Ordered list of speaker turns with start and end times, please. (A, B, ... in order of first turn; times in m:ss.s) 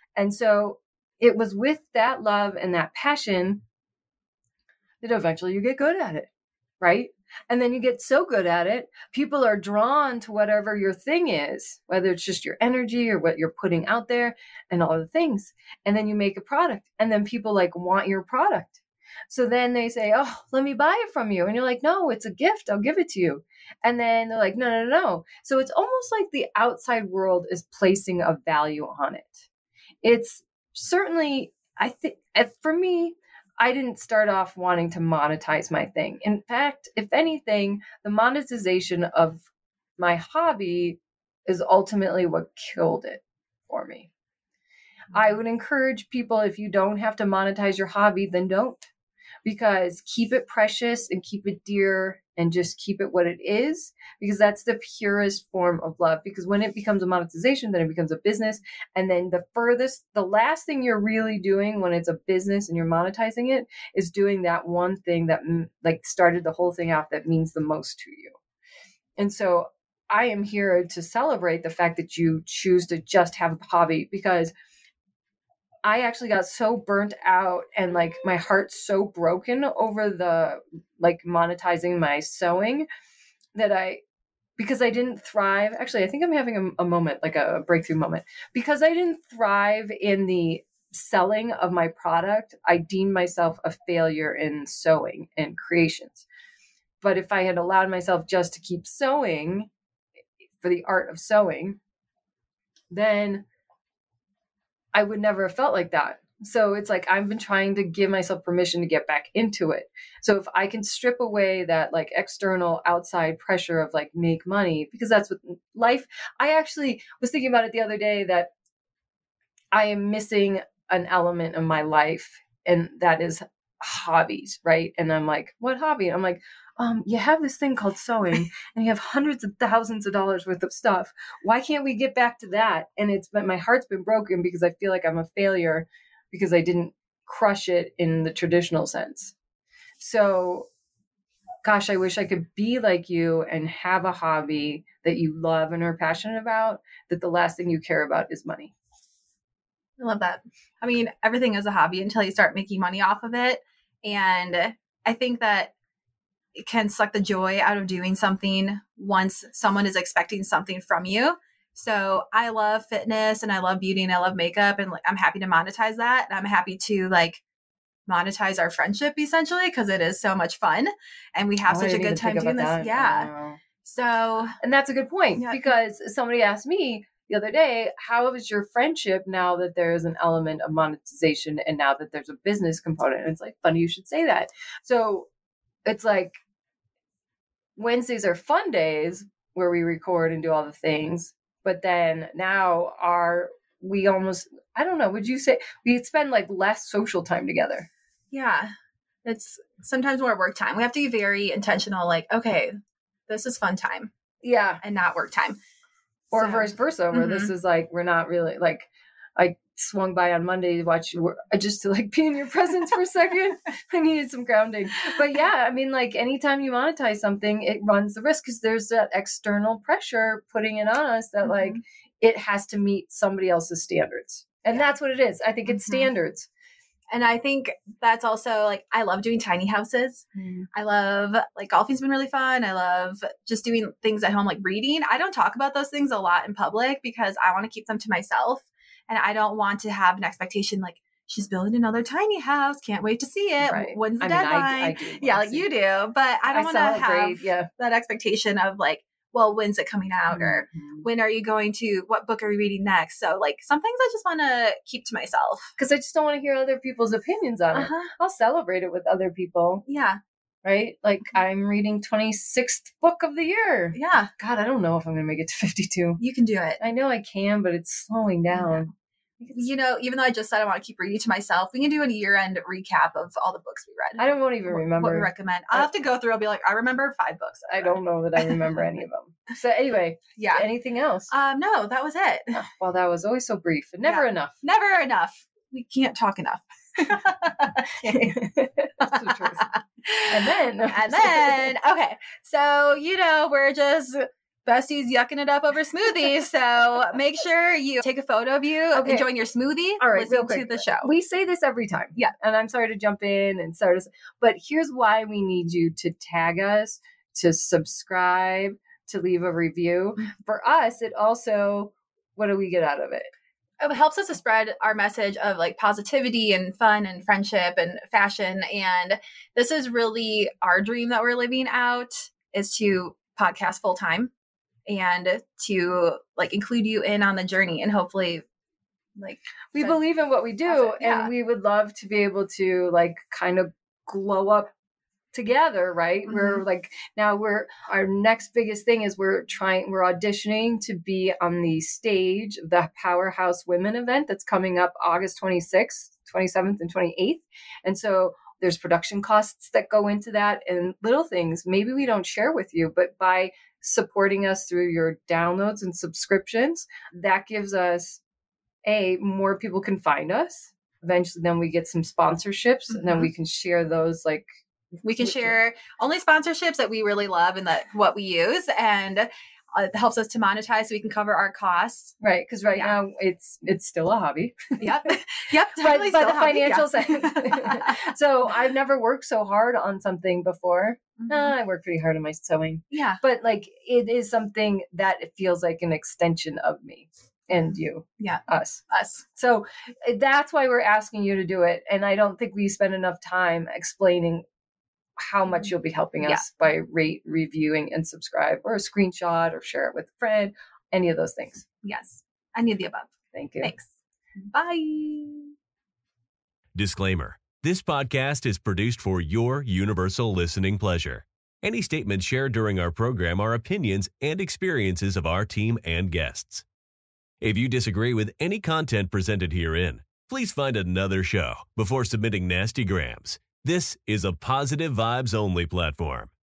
0:00.2-0:03.6 A
0:05.0-0:06.3 A
0:06.8-0:29.4 A
0:30.0-0:39.4 A
0:40.0-0:44.1 A
0:45.1-0:48.9 A
0:49.4-1:08.4 A
1:09.2-1:14.5 A
1:15.8-1:22.9 A
1:23.6-1:24.0 A
1:24.6-1:36.2 A
1:37.0-1:39.7 A
1:40.6-1:41.8 A
1:42.9-1:43.4 A
1:44.9-1:58.5 A
1:59.7-2:19.3 A
2:20.0-2:20.7 A
2:21.6-2:28.7 A
2:30.0-2:35.7 B
2:36.6-2:47.4 B
2:48.1-2:53.3 B
2:51.7-2:53.6 A
2:53.8-2:54.6 B
2:54.6-3:05.3 A
2:55.4-2:55.7 B
3:05.8-3:06.4 A
3:07.8-3:17.9 A
3:18.3-3:18.7 B
3:19.2-3:22.7 B
3:23.3-3:24.1 B
3:24.4-3:24.8 A
3:24.8-3:25.6 B
3:26.3-3:46.5 A
3:26.4-3:27.5 B
3:41.4-3:41.8 B
3:45.7-3:46.1 B
3:47.1-4:15.7 B
3:50.4-3:50.7 A
4:03.6-4:05.7 A
4:06.5-4:07.7 A
4:10.3-4:11.0 A
4:15.8-4:19.8 A
4:17.7-4:18.1 B
4:19.8-4:20.2 B
4:20.6-4:26.2 A
4:23.9-4:24.3 B
4:26.2-4:26.8 B
4:26.8-4:29.7 A
4:28.5-4:28.9 B
4:29.5-4:38.6 B
4:34.2-4:35.9 A
4:37.7-4:41.3 A
4:40.4-4:40.6 B
4:41.3-4:42.6 B
4:42.5-4:44.6 A
4:44.0-4:48.3 B
4:48.0-4:49.7 A
4:49.0-4:50.3 B
4:50.3-4:51.7 A
4:50.8-5:01.1 B
4:58.9-4:59.3 A
5:00.0-5:13.3 A
5:13.8-5:24.3 B
5:24.9-5:28.4 B
5:29.2-5:30.0 B
5:29.2-5:34.7 A
5:30.6-5:31.3 B
5:35.3-5:58.2 A
5:36.3-5:36.6 B
5:58.8-6:04.5 A
6:02.9-6:03.3 B
6:05.0-6:12.1 B
6:05.2-6:05.6 A
6:12.2-6:15.2 A
6:14.8-6:18.1 B
6:15.8-6:28.8 A
6:21.2-6:21.5 B
6:22.9-6:23.2 B
6:28.2-6:29.2 B
6:29.3-6:34.4 A
6:35.2-6:41.6 A
6:41.8-6:43.9 B
6:43.3-6:43.7 A
6:44.5-6:45.5 B
6:46.7-6:56.6 C
6:57.4-7:06.3 C